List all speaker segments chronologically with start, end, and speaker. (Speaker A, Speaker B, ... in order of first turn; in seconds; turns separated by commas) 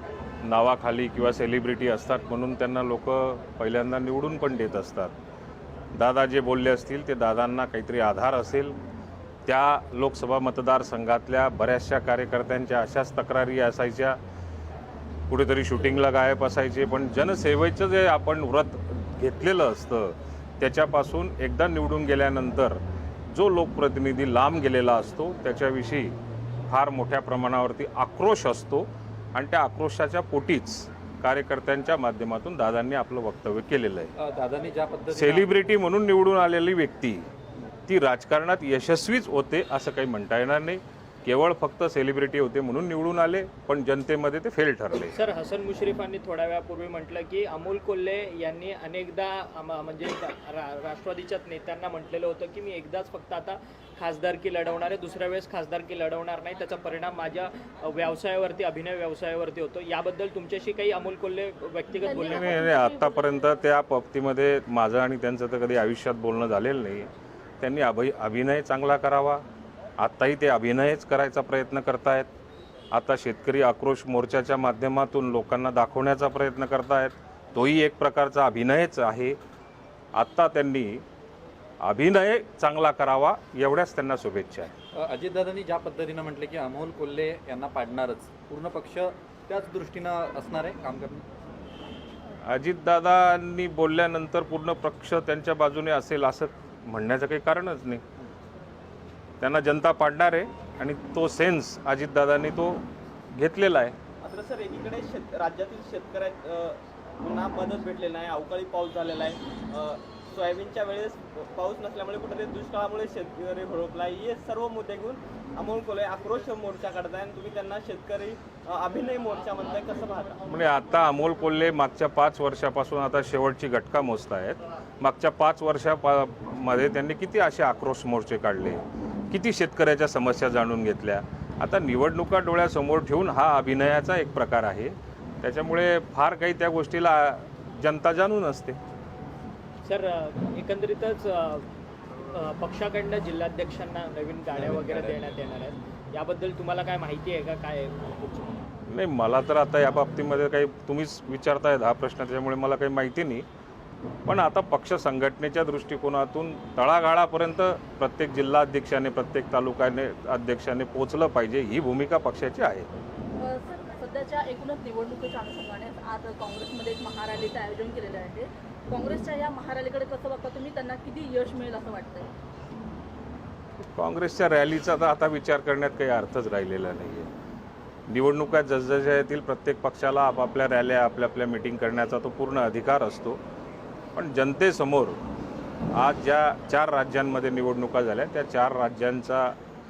Speaker A: 0.4-5.1, Speaker A: 5.9-8.8, Speaker A: 9.5-14.2, Speaker A: 15.3-26.2, Speaker A: 26.7-34.1, Speaker B: 34.2-35.5, Speaker A: 35.1-37.3, Speaker A: 37.9-45.1, Speaker C: 45.1-62.6, Speaker D: 61.9-63.5, Speaker A: 62.1-69.4, Speaker A: 70.0-72.3, Speaker A: 72.9-79.4, Speaker A: 80.1-81.0, Speaker A: 81.8-84.7, Speaker B: 85.0-91.3, Speaker A: 92.4-98.0, Speaker A: 99.4-104.0, Speaker E: 104.2-120.4, Speaker A: 120.5-138.8, Speaker C: 139.8-141.7, Speaker C: 142.3-148.6, Speaker B: 144.5-145.4, Speaker A: 148.9-153.5, Speaker A: 154.3-162.9, Speaker D: 163.4-172.3, Speaker A: 173.8-177.3, Speaker A: 178.1-183.4, Speaker A: 184.2-185.2, Speaker A: 185.9-189.6